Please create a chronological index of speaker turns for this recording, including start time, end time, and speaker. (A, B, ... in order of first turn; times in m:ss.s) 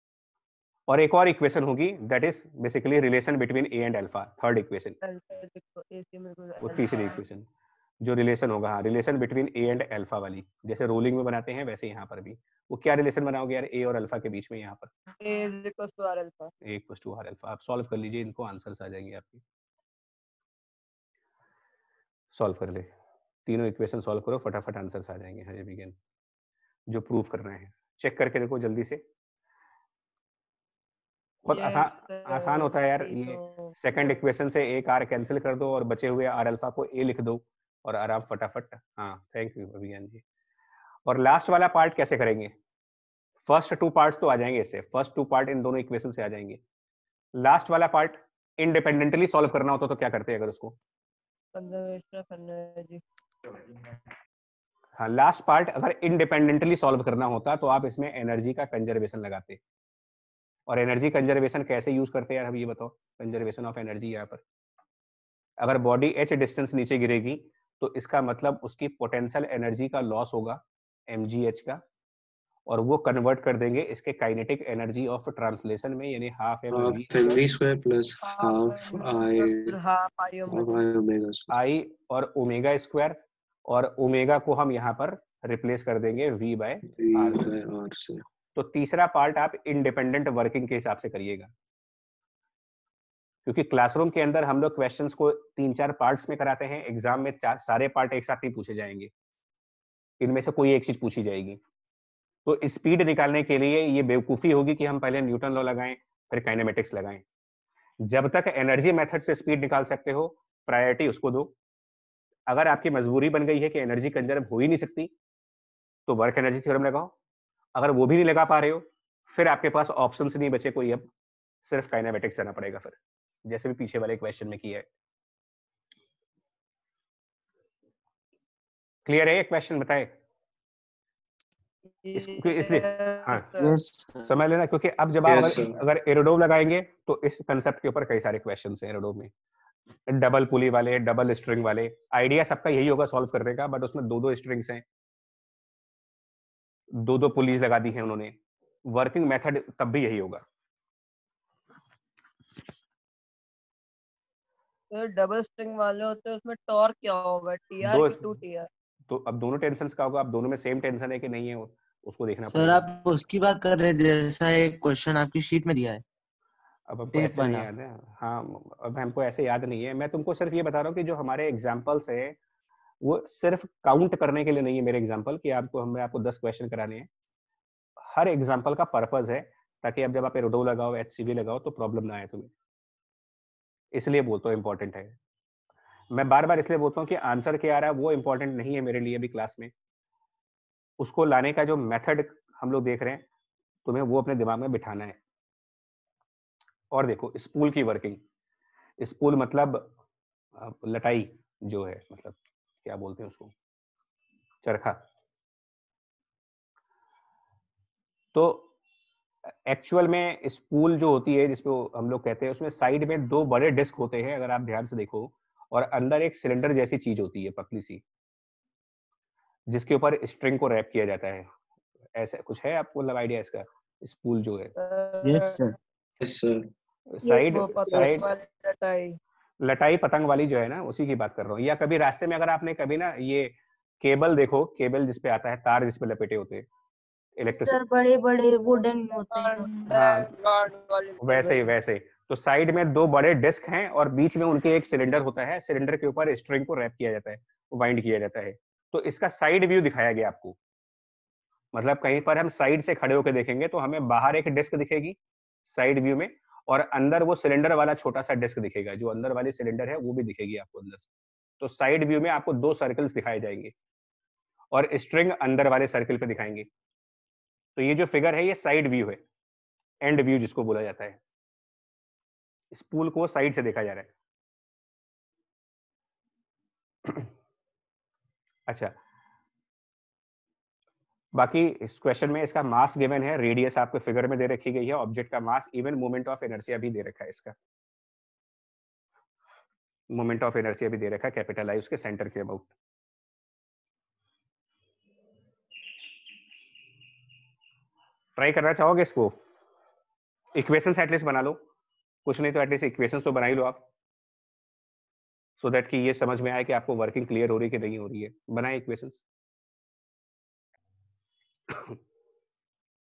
0:00.9-0:05.0 A
0:05.0-0:07.2 B
0:06.6-0:07.5 A
0:08.0-0:14.9 A
0:15.2-0:16.5 B
0:16.6-0:19.4 A
0:22.3-0:22.9 A
0:23.4-0:25.9 A
0:26.9-0:29.0 A
0:31.4-0:40.2 A
0:31.5-0:34.1 B
0:41.0-0:42.5 A
0:43.5-0:46.6 A
0:47.4-0:50.7 A
0:51.5-0:53.0 B
0:55.0-0:59.6 A
1:00.7-1:04.4 A
1:05.6-1:11.8 A
1:12.7-1:17.4 A
1:16.7-1:19.8 C
1:18.2-1:20.8 B
1:20.5-1:21.6 C
1:21.5-1:27.5 A
1:26.8-1:28.2 C
1:28.6-1:31.5 A
1:33.4-1:39.1 A
1:40.2-1:41.6 A
1:42.4-1:47.2 A
1:48.0-1:51.5 A
1:52.5-1:55.1 A
1:56.1-1:57.1 A
1:57.8-2:01.1 A
2:01.6-2:04.8 A
2:09.0-2:10.1 A
2:12.0-2:13.8 B
2:12.1-2:13.5 A
2:13.6-2:14.3 D
2:14.2-2:19.3 A
2:15.2-2:15.8 C
2:20.1-2:24.8 A
2:27.0-2:28.4 A
2:28.9-2:30.4 A
2:34.9-2:38.7 B
2:37.8-2:38.3 A
2:39.1-2:42.9 A
2:42.5-2:46.0 D
2:46.9-2:52.4 A
2:47.1-2:47.7 D
2:53.0-2:57.1 A
2:58.1-3:02.5 A
3:03.9-3:05.2 A
3:06.1-3:09.7 A
3:11.0-3:13.2 A
3:13.8-3:15.2 A
3:16.9-3:18.2 A
3:19.0-3:19.9 A
3:20.6-3:23.5 A
3:24.6-3:25.0 A
3:28.3-3:28.7 A
3:29.6-3:38.0 A
3:39.7-3:41.5 A
3:42.2-3:44.7 A
3:44.8-3:45.6 B
3:45.2-3:45.8 D
3:46.2-3:46.7 C
3:47.1-3:48.3 A
3:47.2-3:49.2 B
3:49.6-3:56.6 A
3:57.4-3:57.8 A
3:57.5-3:59.9 E
3:58.6-4:01.7 B
3:59.9-4:00.3 A
4:01.2-4:10.6 A
4:11.7-4:21.1 A
4:21.6-4:23.7 A
4:24.7-4:26.7 A
4:27.8-4:29.2 A
4:30.0-4:31.2 A
4:32.7-4:34.1 A
4:38.7-4:38.9 A
4:41.3-4:47.5 A
4:50.1-4:52.7 A
4:58.4-4:59.4 A
5:00.5-5:01.6 A
5:02.2-5:03.8 A
5:05.6-5:09.2 A
5:11.7-5:12.0 A